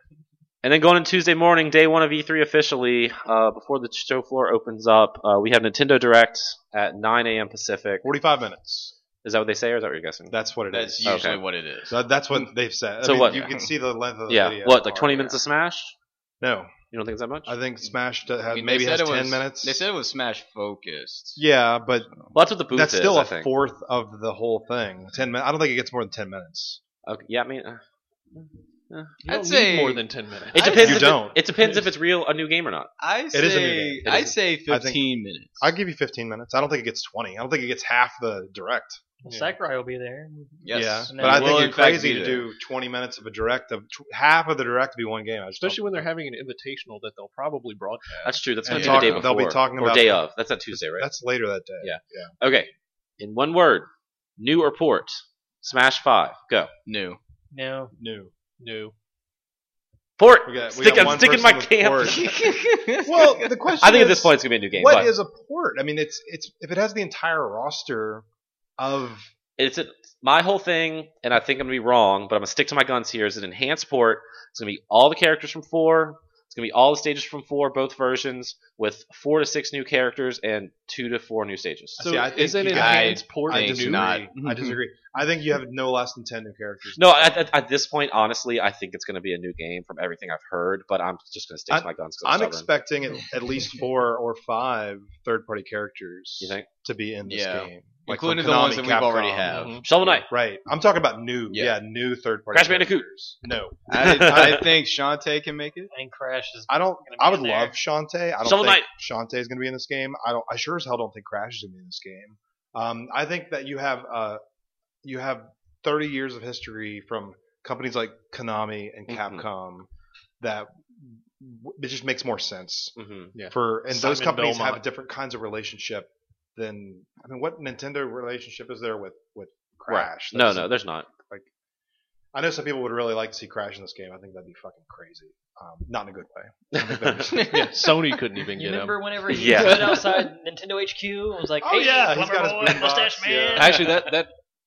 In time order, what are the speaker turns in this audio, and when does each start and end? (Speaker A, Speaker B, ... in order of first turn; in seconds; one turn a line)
Speaker A: 0.6-8.1
Speaker B: 8.0-8.9
Speaker A: 9.2-10.3
Speaker B: 10.3-11.3
Speaker C: 10.7-12.0
Speaker A: 11.0-11.4
Speaker B: 11.9-15.4
Speaker A: 13.0-13.5
Speaker C: 13.3-13.6
Speaker A: 14.3-15.9
Speaker B: 16.4-16.7
Speaker A: 16.9-17.5
Speaker B: 17.4-19.9
Speaker C: 18.5-21.4
Speaker B: 21.4-22.1
Speaker A: 22.3-23.5
Speaker B: 22.7-26.8
Speaker A: 27.1-27.8
Speaker A: 28.3-29.1
Speaker D: 29.2-31.0
Speaker C: 29.2-30.0
Speaker A: 30.5-32.9
Speaker C: 30.6-31.1
Speaker B: 30.7-31.4
Speaker C: 33.0-35.7
Speaker B: 33.3-34.1
Speaker A: 34.0-34.3
Speaker B: 34.7-35.0
Speaker B: 35.6-39.0
Speaker E: 39.2-41.8
Speaker D: 39.2-39.6
Speaker C: 40.6-42.5
Speaker B: 40.7-46.1
Speaker D: 45.6-48.4
Speaker A: 48.2-51.1
Speaker B: 48.6-52.3
Speaker C: 48.7-49.2
Speaker A: 51.8-56.7
Speaker C: 56.9-57.2
Speaker E: 57.5-57.9
Speaker B: 58.0-58.3
Speaker D: 58.6-58.9
Speaker A: 60.2-62.2
Speaker B: 60.4-68.2
Speaker C: 62.1-63.8
Speaker A: 63.8-65.1
Speaker B: 68.8-69.3
Speaker A: 69.6-82.0
Speaker B: 82.0-87.4
Speaker D: 82.0-84.2
Speaker C: 82.7-84.8
Speaker A: 87.0-92.7
Speaker B: 91.7-99.5
Speaker A: 96.4-96.7
Speaker C: 97.3-100.2
Speaker D: 99.5-99.8
Speaker A: 99.8-100.3
Speaker B: 100.0-103.9
Speaker C: 101.5-101.8
Speaker A: 102.5-103.1
Speaker C: 103.9-105.9
Speaker A: 103.9-104.7
Speaker E: 105.9-107.7
Speaker B: 106.7-114.4
Speaker A: 108.4-108.9
Speaker B: 115.0-119.9
Speaker A: 119.1-119.5
Speaker B: 120.4-122.9
Speaker A: 123.0-123.3
Speaker D: 123.3-124.8
Speaker B: 123.5-131.5
Speaker A: 129.9-131.1
Speaker B: 132.3-137.9
Speaker A: 136.7-137.3
Speaker D: 137.5-140.3
Speaker E: 138.6-144.0
Speaker A: 139.3-140.0
Speaker B: 141.6-143.8
Speaker D: 143.5-144.3